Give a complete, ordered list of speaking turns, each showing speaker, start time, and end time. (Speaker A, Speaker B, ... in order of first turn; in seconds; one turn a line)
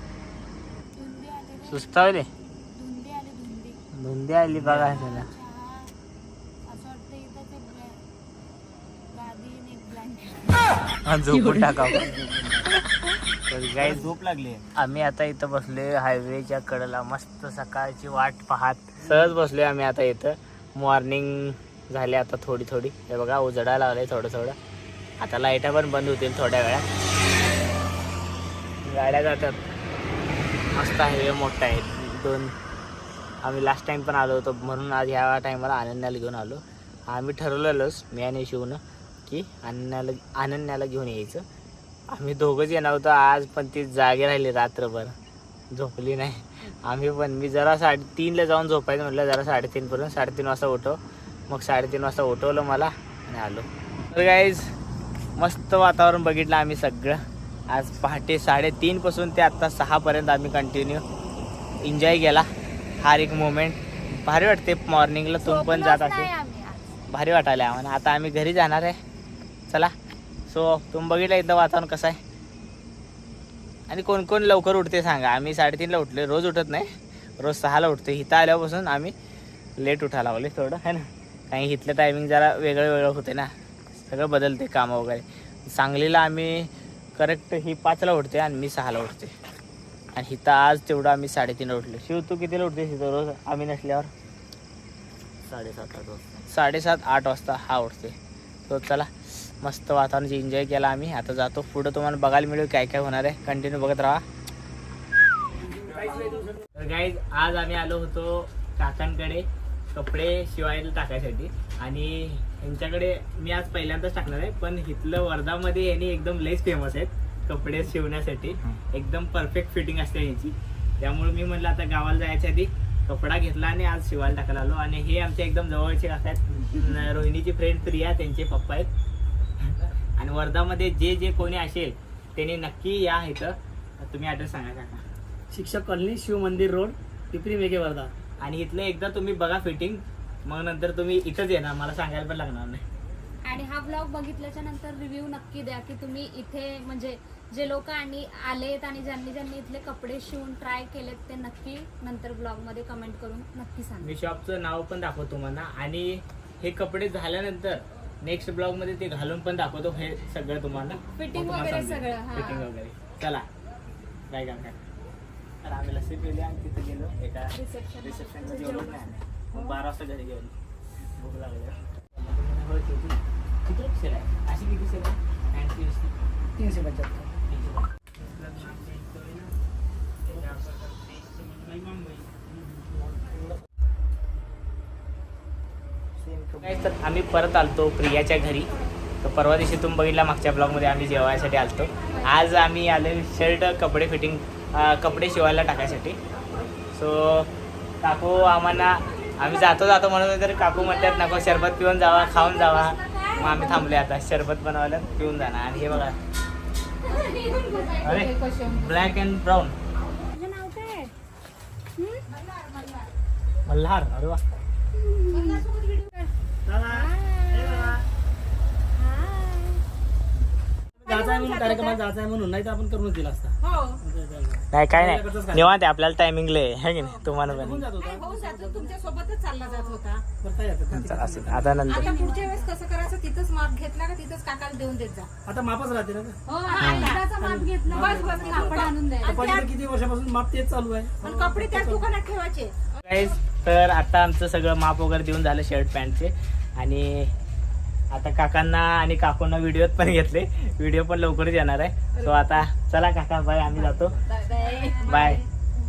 Speaker A: 0.9-2.2
Speaker B: 1.7-2.3
Speaker A: 2.7-3.8
Speaker B: 3.9-5.3
Speaker A: 4.8-5.9
Speaker A: 6.7-8.0
Speaker A: 9.1-11.0
Speaker B: 11.1-12.1
Speaker C: 12.2-12.7
Speaker B: 12.6-14.1
Speaker C: 13.8-14.6
Speaker B: 14.7-24.6
Speaker B: 25.2-26.9
Speaker B: 28.8-29.6
Speaker B: 30.7-32.5
Speaker B: 33.4-41.4
Speaker B: 42.1-45.1
Speaker B: 45.7-54.7
Speaker B: 55.4-61.0
Speaker B: 61.8-62.5
Speaker B: 63.0-66.3
Speaker A: 65.4-66.9
Speaker B: 67.1-69.0
Speaker B: 70.5-72.2
Speaker B: 73.9-76.9
Speaker B: 77.4-79.1
Speaker B: 79.8-89.3
Speaker B: 90.2-94.1
Speaker C: 95.4-96.4
Speaker B: 96.5-98.2
Speaker B: 98.7-104.2
Speaker D: 106.2-106.5
Speaker B: 106.8-128.9
Speaker B: 129.6-135.0
Speaker D: 135.5-138.1
Speaker B: 138.4-142.8
Speaker A: 143.4-154.1
Speaker B: 154.0-163.5
Speaker A: 161.2-162.7
Speaker B: 164.3-164.8
Speaker B: 165.6-170.5
Speaker A: 167.5-169.8
Speaker B: 171.2-176.1
Speaker D: 176.6-177.3
Speaker B: 177.5-177.8
Speaker B: 178.4-179.4
Speaker D: 178.6-179.1
Speaker D: 181.4-182.3
Speaker B: 186.5-188.7
Speaker B: 189.2-196.2
Speaker B: 196.9-197.5
Speaker B: 198.0-206.2
Speaker E: 201.0-201.4
Speaker E: 202.1-203.9
Speaker E: 207.0-209.0
Speaker A: 207.1-208.0
Speaker B: 208.0-209.8
Speaker A: 210.2-211.1
Speaker A: 212.0-212.3
Speaker E: 212.3-213.1
Speaker B: 213.7-214.4
Speaker A: 215.0-215.7
Speaker E: 215.3-216.3
Speaker D: 216.7-218.0
Speaker A: 216.9-218.0
Speaker A: 218.9-219.8
Speaker D: 221.0-225.7
Speaker E: 221.1-222.0
Speaker E: 223.6-224.0
Speaker B: 224.7-227.9
Speaker D: 227.4-228.9
Speaker E: 228.0-230.2
Speaker D: 230.4-231.7
Speaker B: 230.9-232.1
Speaker A: 231.8-232.7
Speaker E: 231.9-235.3
Speaker D: 235.5-236.4
Speaker E: 236.5-237.3
Speaker A: 236.5-239.5
Speaker B: 236.8-237.2
Speaker D: 237.4-242.1
Speaker E: 237.9-239.7
Speaker E: 241.2-242.9
Speaker B: 243.0-247.3
Speaker B: 248.1-254.2
Speaker E: 254.3-255.4
Speaker A: 254.4-255.4
Speaker B: 255.0-255.4